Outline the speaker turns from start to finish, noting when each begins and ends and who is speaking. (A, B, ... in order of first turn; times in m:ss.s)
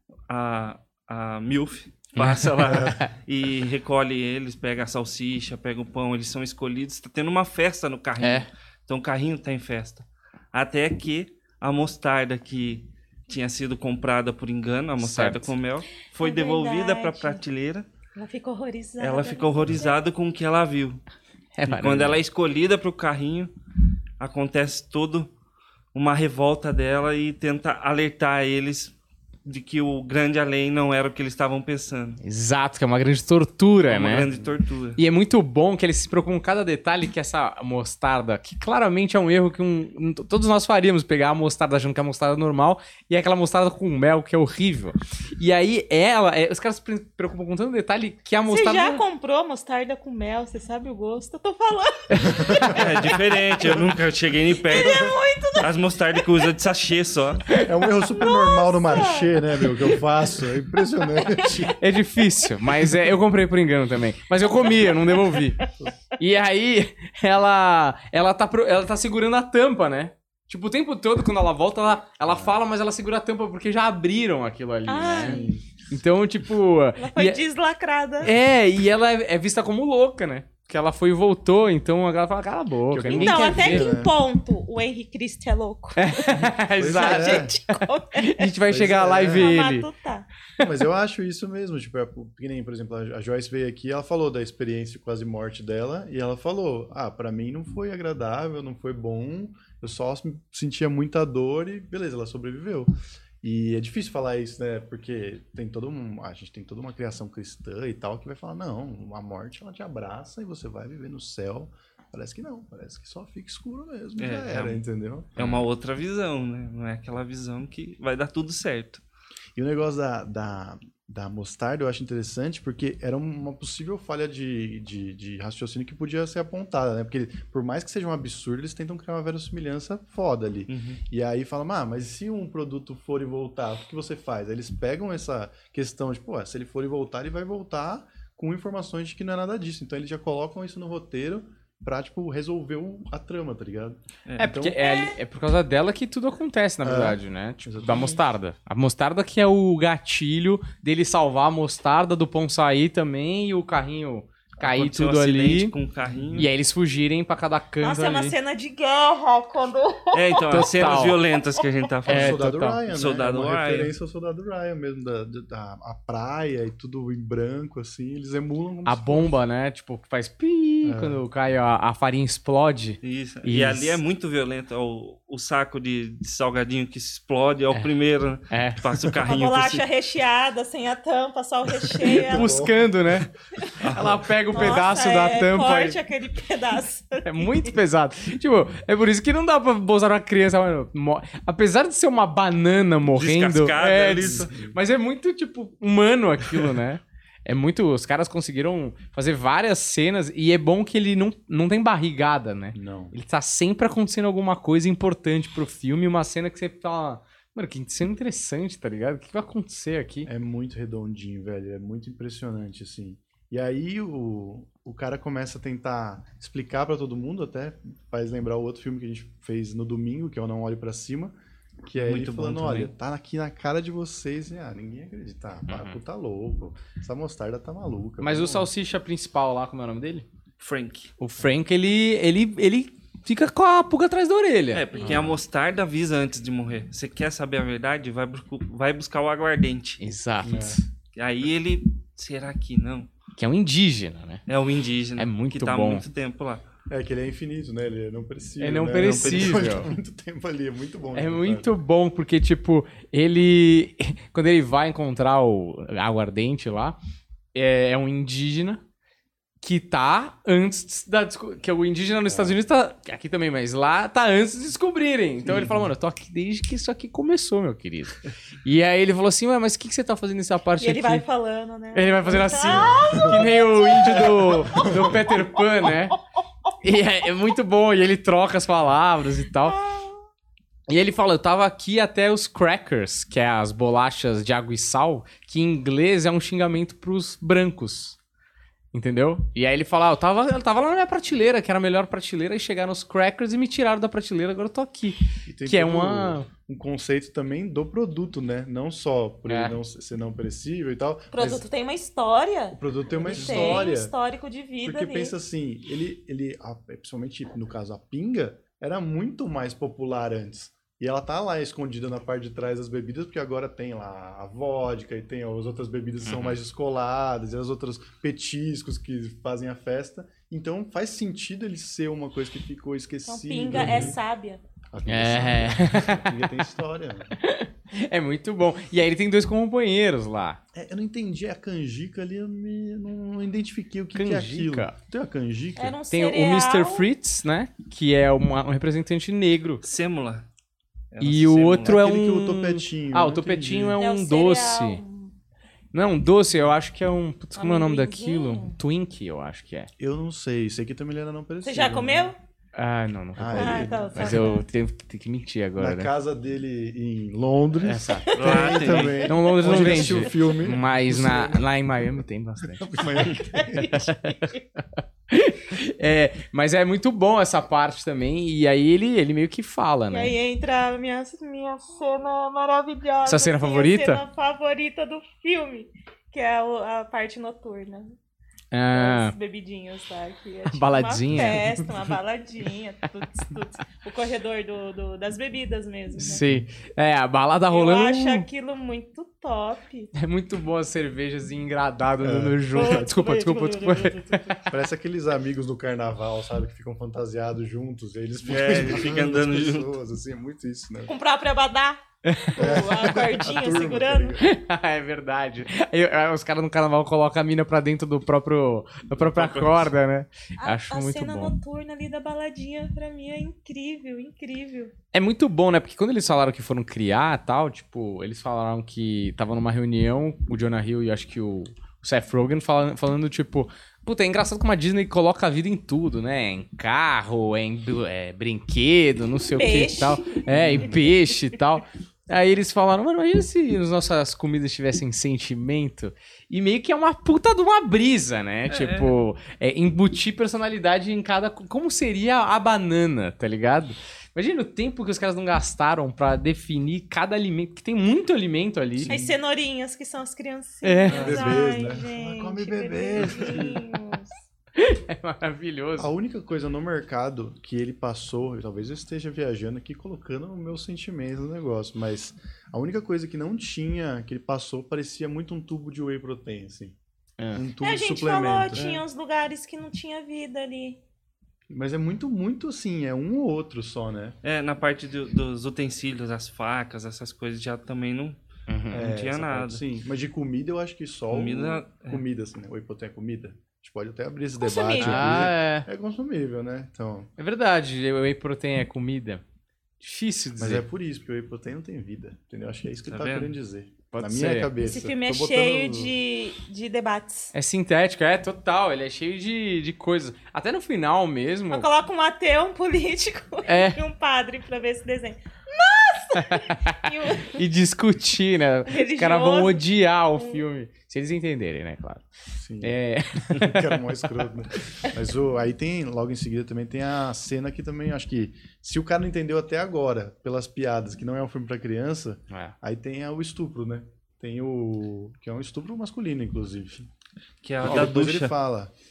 0:00.3-0:17.9 A
0:02.2-0:03.1 B
0:08.2-0:08.5 B
0:15.0-0:15.5 B
0:16.2-0:17.4 C
0:18.2-0:20.0 C
0:19.0-0:21.0 A
0:21.6-0:22.2 B
0:21.7-0:23.5 A
0:24.2-0:25.3 A
0:25.9-0:28.9 A
0:29.4-0:32.2 A
0:32.2-0:34.3 B
0:33.9-0:35.0 A
0:35.0-0:49.0 B
0:48.5-0:53.2 C
0:52.1-0:52.4 B
0:52.2-0:52.9 D
0:52.5-0:57.5 A
0:54.7-0:56.5 C
0:54.8-0:55.1 D
0:57.5-1:01.8 D
0:58.0-1:00.0 C
1:01.1-1:01.7 C
1:01.8-1:05.6 B
1:04.7-1:05.6 C
1:06.2-1:15.4 B
1:12.2-1:12.6 D
1:14.9-1:15.5 C
1:15.2-1:15.7 D
1:15.9-1:17.4 B
1:17.0-1:18.3 C
1:18.2-1:24.0 B
1:22.9-1:24.1 D
1:23.1-1:26.3 C
1:26.0-1:29.9 B
1:26.4-1:27.5 D
1:26.8-1:28.5 C
1:28.7-1:29.5 D
1:29.3-1:30.3 C
1:30.6-1:42.9 D
1:43.4-1:55.4 D
1:54.2-1:54.8 A
1:55.4-1:59.0 A
1:55.4-1:55.6 B
1:59.6-2:24.8 D
2:10.7-2:11.0 A
2:24.3-2:24.5 A
2:24.4-2:35.7 B
2:24.8-2:25.2 C
2:26.8-2:28.2 D
2:34.6-2:36.5 A
2:36.2-2:36.5 D
2:36.4-2:38.4 B
2:37.8-2:40.7 C
2:40.1-2:43.9 A
2:40.5-2:41.2 B
2:41.3-2:41.6 C
2:42.1-2:49.4 D
2:42.1-2:42.8 B
2:48.8-2:54.0 B
2:50.8-2:51.2 D
2:53.0-2:59.9 A
2:58.5-2:58.9 B
2:59.3-3:02.5 C
3:01.8-3:03.3 D
3:02.1-3:03.3 B
3:03.8-3:06.0 B
3:03.8-3:04.2 A
3:04.5-3:07.7 C
3:07.2-3:30.3 B
3:13.1-3:14.5 A
3:14.0-3:14.8 D
3:22.7-3:23.2 D
3:30.3-3:48.7 D
3:42.0-3:42.9 A
3:45.7-3:46.0 B
3:48.2-3:50.3 B
3:50.6-3:51.1 A
3:51.2-3:55.2 B
3:54.7-4:00.0 A
3:55.0-3:55.4 D
4:00.0-4:00.8 B
4:00.4-4:00.8 D
4:01.2-4:03.1 A
4:03.4-4:04.4 B
4:04.5-4:06.6 A
4:05.2-4:06.1 B
4:06.9-4:11.8 D
4:08.6-4:09.9 B
4:09.0-4:09.7 A
4:11.1-4:17.0 B
4:17.5-4:18.8 B
4:19.6-4:31.3 B
4:22.3-4:22.6 D
4:25.4-4:25.9 D
4:30.8-4:35.9 C
4:31.9-4:36.2 B
4:32.6-4:33.4 D
4:36.8-4:39.8 B
4:39.6-4:40.2 C
4:40.9-4:48.2 B
4:48.9-4:56.5 B
4:55.5-5:01.6 D
4:59.5-4:59.8 B
5:01.3-5:05.3 C
5:02.7-5:04.1 D
5:03.4-5:03.8 A
5:04.8-5:24.2 D
5:16.2-5:16.6 B
5:23.3-5:24.6 C
5:24.9-5:27.4 D
5:25.1-5:26.5 B
5:27.4-5:30.6 B
5:30.7-5:36.0 D
5:34.1-5:34.9 B
5:35.8-5:37.1 C
5:36.1-5:39.8 B
5:39.8-5:40.5 A
5:41.1-5:42.0 A
5:41.2-5:45.0 B
5:41.8-5:44.0 D
5:44.0-5:45.4 C
5:45.9-5:49.9 B
5:47.6-5:48.8 C
5:50.0-5:52.3 D
5:51.6-5:52.4 C
5:52.8-5:56.1 B
5:53.4-5:54.6 D
5:53.6-5:54.6 C
5:55.8-6:01.7 D
5:57.8-5:58.3 B
5:58.3-6:00.6 C
5:58.4-5:59.3 A
5:59.2-6:03.0 B
6:02.6-6:04.0 D
6:03.0-6:04.6 C
6:03.8-6:04.4 B
6:05.0-6:10.3 B
6:10.1-6:18.2 C
6:13.2-6:14.2 B
6:18.7-6:19.3 B
6:18.9-6:26.4 C
6:20.7-6:21.6 B
6:21.3-6:21.9 D
6:26.2-6:28.5 B
6:27.7-6:30.1 C
6:30.2-6:34.4 B
6:32.2-6:33.0 D
6:32.7-6:34.7 C
6:34.7-6:41.1 D
6:38.5-6:40.0 A
6:41.1-6:44.4 C
6:42.2-6:42.9 B
6:42.6-6:44.4 D
6:44.4-6:51.6 B
6:49.2-6:49.9 A
6:50.6-6:54.9 C
6:55.1-7:29.3 B
7:09.4-7:10.9 C
7:10.5-7:11.1 D
7:18.7-7:19.1 A
7:29.1-7:34.4 C
7:30.8-7:31.6 B
7:31.1-7:31.4 A
7:31.1-7:33.8 D
7:34.8-7:36.1 B
7:36.0-7:47.0 D
7:47.4-7:47.6 B
7:47.5-7:48.9 D
7:47.8-7:51.0 C
7:48.7-7:49.0 A
7:51.7-7:54.4 D
7:54.4-7:58.4 A
7:58.7-7:59.0 B
7:58.9-7:59.8 A
7:58.9-8:07.3 D
8:01.3-8:02.2 A
8:04.6-8:05.5 C
8:05.0-8:05.9 B
8:07.4-8:09.4 B
8:10.0-8:10.8 B
8:10.6-8:16.2 D
8:13.1-8:13.5 A
8:14.1-8:14.7 B
8:14.8-8:17.5 C
8:17.5-8:21.9 B
8:21.7-8:27.6 C
8:23.7-8:24.0 B
8:26.4-8:32.3 B
8:28.9-8:29.8 C
8:30.4-8:30.6 C
8:32.6-8:33.0 D
8:32.8-8:34.0 B
8:33.5-8:47.1 D
8:47.6-8:48.6 A
8:47.8-8:48.9 D